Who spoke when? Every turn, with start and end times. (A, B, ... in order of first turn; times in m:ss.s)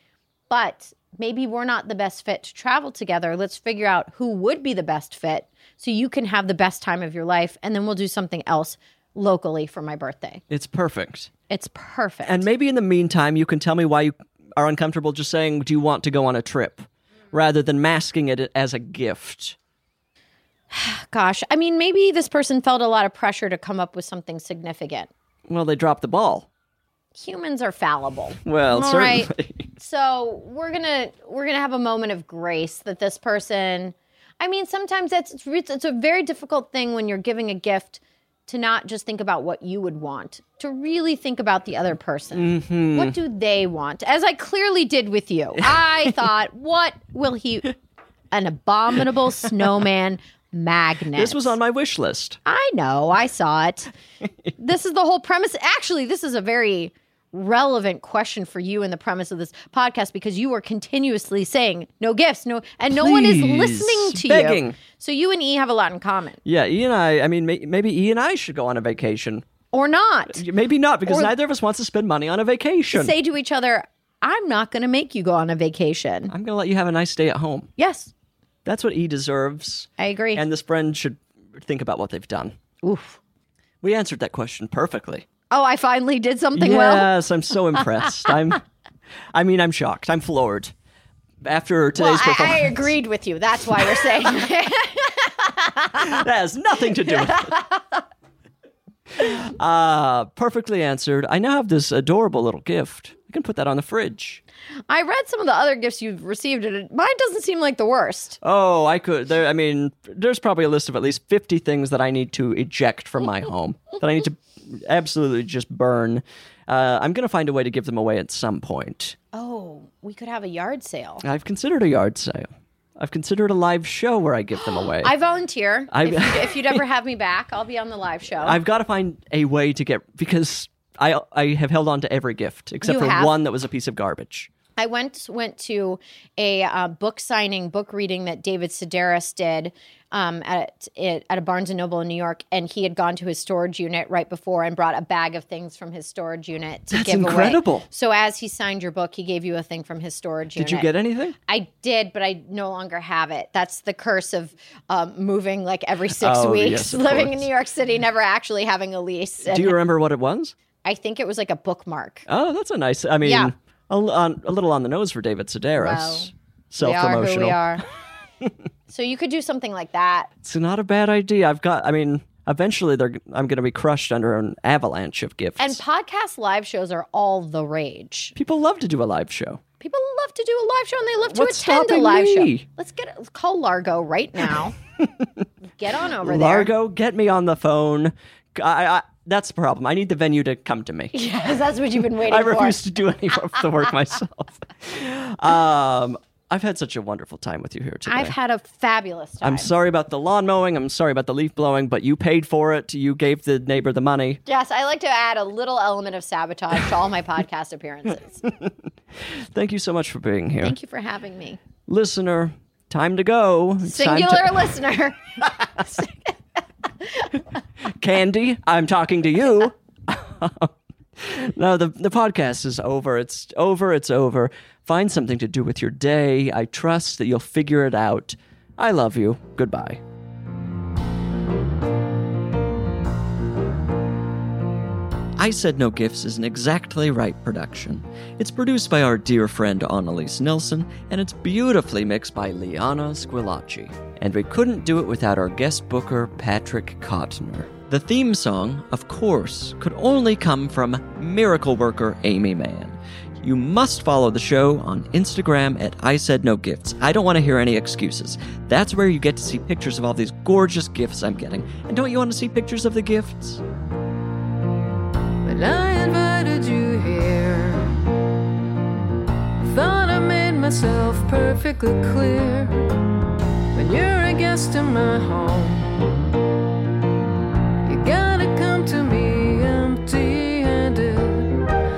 0:00.5-0:10.4 A
0:10.5-0:11.3 B
0:11.5-0:12.4 A
0:12.2-0:19.6 B
0:20.7-0:25.1 A
0:25.5-0:26.5 B
0:27.2-0:47.8 A
0:28.4-0:29.7 B
0:42.3-0:43.2 B
0:45.6-0:46.3 B
0:48.3-0:51.6 A
0:51.2-0:52.4 B
0:52.5-0:53.9 A
0:54.6-1:06.4 A
1:02.9-1:04.8 B
1:06.4-1:09.4 B
1:09.7-1:10.4 A
1:10.3-1:13.1 B
1:11.1-1:11.3 A
1:12.9-1:16.3 A
1:16.3-1:17.7 B
1:17.8-1:18.1 A
1:18.6-1:22.6 B
1:20.0-1:20.4 A
1:22.8-1:23.2 A
1:23.8-1:25.3 B
1:25.5-1:27.1 A
1:26.5-1:28.6 B
1:29.3-1:30.7 B
1:31.4-1:32.9 B
1:32.0-1:36.2 A
1:33.8-1:34.2 B
1:36.0-1:37.6 B
1:37.1-1:38.0 A
1:39.2-1:44.4 B
1:44.9-1:48.4 A
1:48.4-1:59.2 B
1:59.3-2:01.2 A
2:01.2-2:05.1 B
2:05.0-2:08.6 A
2:05.9-2:06.8 B
2:08.4-2:14.5 B
2:12.8-2:13.3 A
2:14.8-2:30.9 A
2:26.9-2:27.9 B
2:30.6-2:31.4 B
2:31.5-2:39.8 A
2:36.1-2:37.5 B
2:39.5-2:40.6 B
2:40.8-2:42.2 A
2:42.3-2:47.8 B
2:43.2-2:43.5 A
2:45.8-2:47.8 A
2:48.9-2:50.3 A
2:50.4-2:55.8 B
2:55.6-2:58.3 A
2:58.4-2:59.6 B
2:59.8-3:04.8 A
3:01.3-3:02.7 B
3:05.0-3:05.4 B
3:05.8-3:06.7 A
3:06.2-3:11.1 B
3:11.1-3:12.8 A
3:12.2-3:18.3 B
3:18.1-3:19.7 A
3:19.4-3:24.4 B
3:24.5-3:28.4 A
3:29.2-3:30.8 B
3:30.6-3:31.6 A
3:31.9-3:34.6 B
3:33.8-3:36.4 A
3:37.0-3:37.4 A
3:38.0-3:50.0 B
3:55.4-4:23.6 B
4:25.4-4:27.9 C
4:29.6-4:32.9 C
4:33.7-4:36.1 C
4:37.8-4:41.6 C